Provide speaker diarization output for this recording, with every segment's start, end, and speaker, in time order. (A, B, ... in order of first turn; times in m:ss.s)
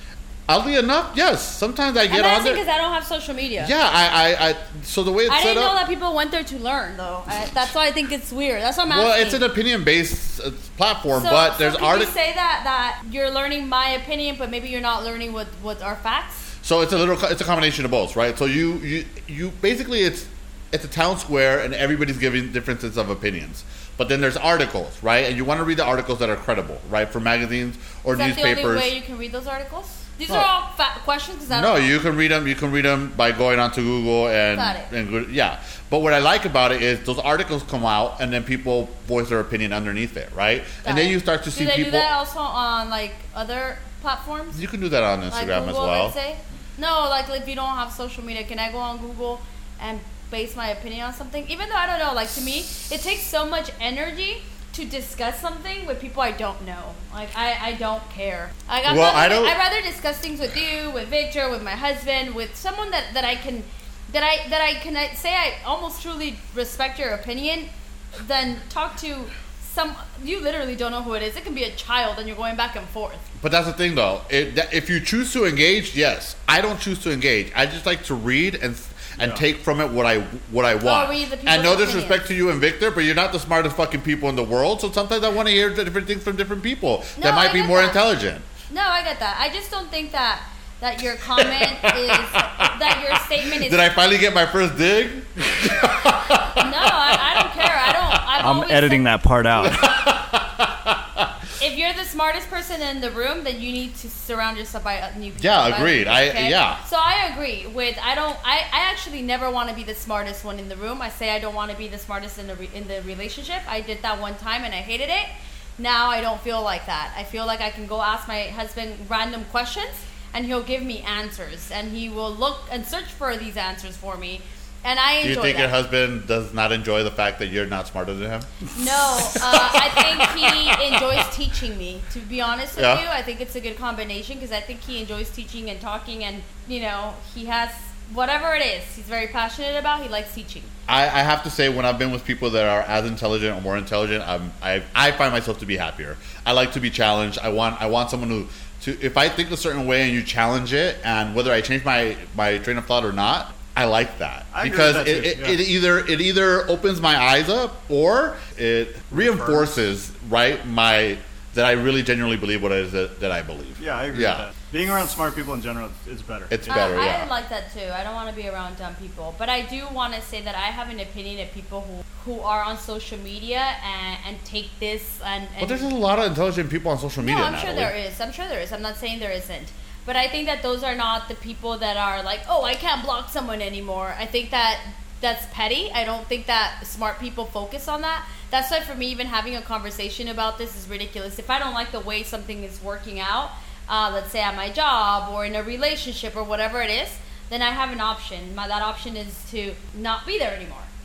0:00.5-0:02.6 A
0:02.1-0:03.7 B
0:03.6-0:05.8 A
0:05.3-0:09.4 B
0:08.9-0:12.1 A
0:11.1-0:16.5 B
0:16.6-0:28.9 A
0:28.1-0:31.9 B
0:31.5-0:42.1 A
0:34.6-0:34.9 B
0:40.8-0:44.6 B
0:44.5-0:46.2 A
0:45.3-1:13.2 B
0:58.9-0:59.6 A
1:13.4-1:28.5 A
1:19.2-1:19.4 C
1:20.8-1:22.2 B
1:27.2-1:28.0 B
1:28.7-1:33.9 B
1:31.4-1:32.7 A
1:33.4-1:37.9 A
1:36.6-1:39.1 B
1:38.4-1:39.8 C
1:39.6-1:41.3 A
1:41.6-2:05.7 B
1:45.4-1:46.8 A
2:05.2-2:08.5 A
2:08.7-2:20.7 B
2:09.3-2:11.2 A
2:12.8-2:13.1 A
2:20.9-2:44.5 A
2:34.5-2:35.6 C
2:39.1-2:39.7 C
2:43.8-2:46.9 C
2:46.5-2:47.3 A
2:46.7-2:55.9 B
2:55.6-2:57.9 A
2:57.2-3:20.9 B